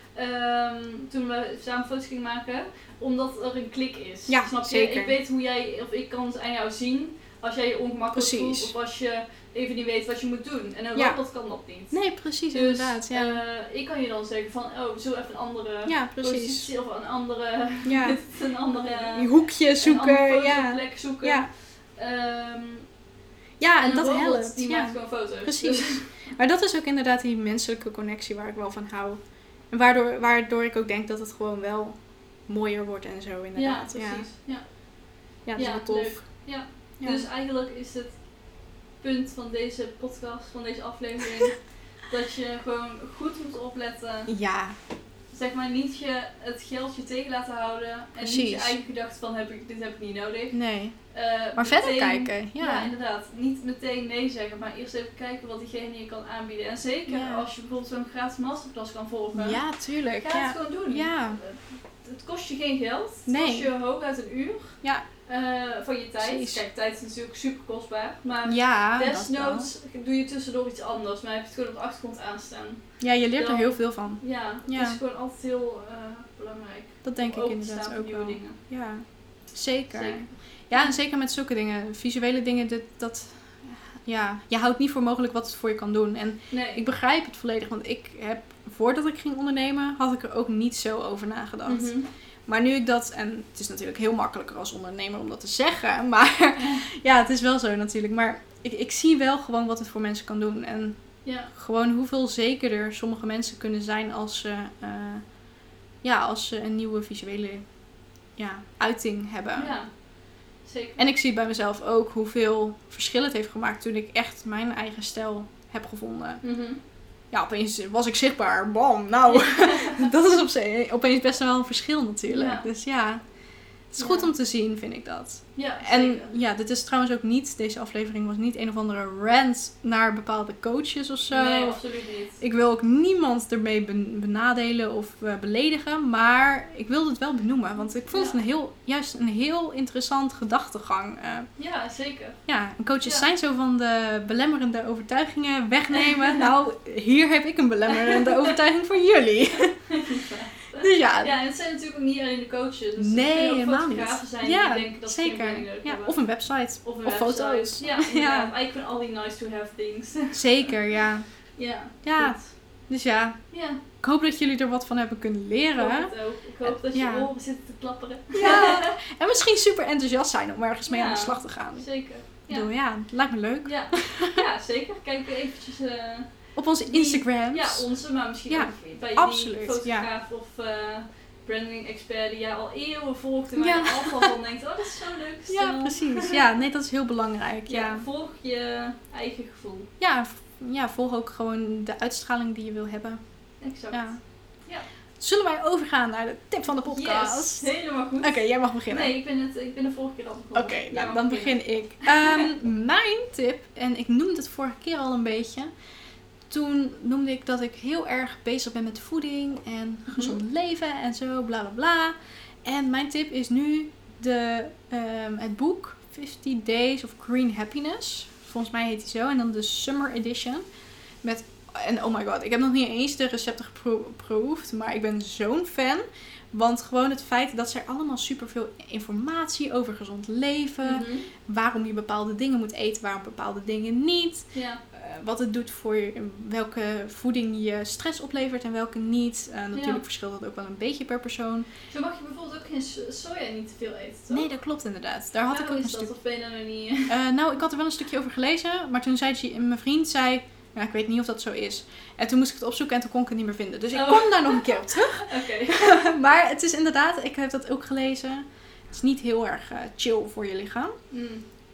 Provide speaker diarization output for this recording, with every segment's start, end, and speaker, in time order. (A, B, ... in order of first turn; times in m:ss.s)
0:00.1-0:12.0 A
0:04.3-0:05.1 B
0:08.1-0:08.7 B
0:11.9-0:13.4 B
0:12.5-0:22.8 A
0:15.9-0:16.7 B
0:17.8-0:18.2 B
0:18.8-0:21.5 B
0:23.6-0:29.2 B
0:23.8-0:26.1 A
0:29.7-0:32.0 B
0:32.5-0:34.3 B
0:33.6-0:34.6 A
0:35.4-0:36.2 B
0:35.6-0:38.1 A
0:37.0-0:37.3 B
0:39.0-0:44.3 A
0:44.3-0:44.8 B
0:45.3-0:50.5 A
0:48.2-0:48.7 B
0:50.5-0:50.9 B
0:51.1-0:59.6 A
0:51.6-0:52.9 B
0:57.1-0:57.4 B
0:59.3-1:01.4 B
1:00.2-1:12.8 A
1:03.3-1:03.7 B
1:06.2-1:06.6 B
1:08.4-1:09.7 B
1:13.0-1:15.0 B
1:13.4-1:18.6 A
1:17.0-1:31.9 B
1:19.9-1:20.3 A
1:26.5-1:26.8 A
1:31.6-1:32.1 A
1:32.5-1:41.0 B
1:41.2-1:41.5 A
1:41.5-1:45.2 B
1:46.0-1:47.6 B
1:48.4-1:49.8 B
1:49.6-1:49.9 A
1:50.6-1:51.0 A
1:51.0-1:56.4 B
1:56.4-1:56.8 A
1:57.3-2:03.2 B
1:59.3-2:00.1 A
2:02.3-2:02.6 A
2:03.9-2:11.8 B
2:04.0-2:04.3 A
2:05.6-2:06.3 A
2:11.3-2:12.4 A
2:12.4-2:21.5 B
2:21.6-2:22.4 A
2:22.5-2:29.7 B
2:25.9-2:26.4 A
2:27.9-2:28.5 A
2:29.6-2:36.2 A
2:30.8-2:31.3 B
2:33.0-2:38.5 B
2:36.8-2:40.7 A
2:40.3-2:41.2 B
2:41.6-2:42.5 A
2:42.0-2:42.4 B
2:42.9-2:43.4 B
2:43.5-2:43.8 A
2:44.0-2:46.1 B
2:45.8-2:49.0 A
2:46.6-2:47.3 B
2:48.3-2:51.8 B
2:50.9-2:52.7 A
2:52.5-2:54.4 B
2:53.6-2:56.3 A
2:56.6-2:57.8 B
2:56.8-3:06.4 A
2:58.5-3:00.1 B
3:03.6-3:04.3 B
3:05.5-3:08.0 B
3:07.7-3:09.9 A
3:10.0-3:13.2 B
3:13.6-3:14.0 A
3:13.9-3:14.2 B
3:15.2-3:17.7 B
3:16.8-3:22.4 A
3:18.2-3:19.1 B
3:20.5-3:25.7 B
3:26.5-3:40.6 B
3:30.1-3:30.4 A
3:41.2-4:01.7 B
3:50.8-3:51.3 A
3:54.5-3:54.8 A
3:59.7-4:00.0 A
4:01.9-4:04.5 A
4:04.3-4:06.1 B
4:05.5-4:07.1 A
4:07.1-4:20.9 B
4:13.9-4:16.1 A
4:21.1-4:21.4 A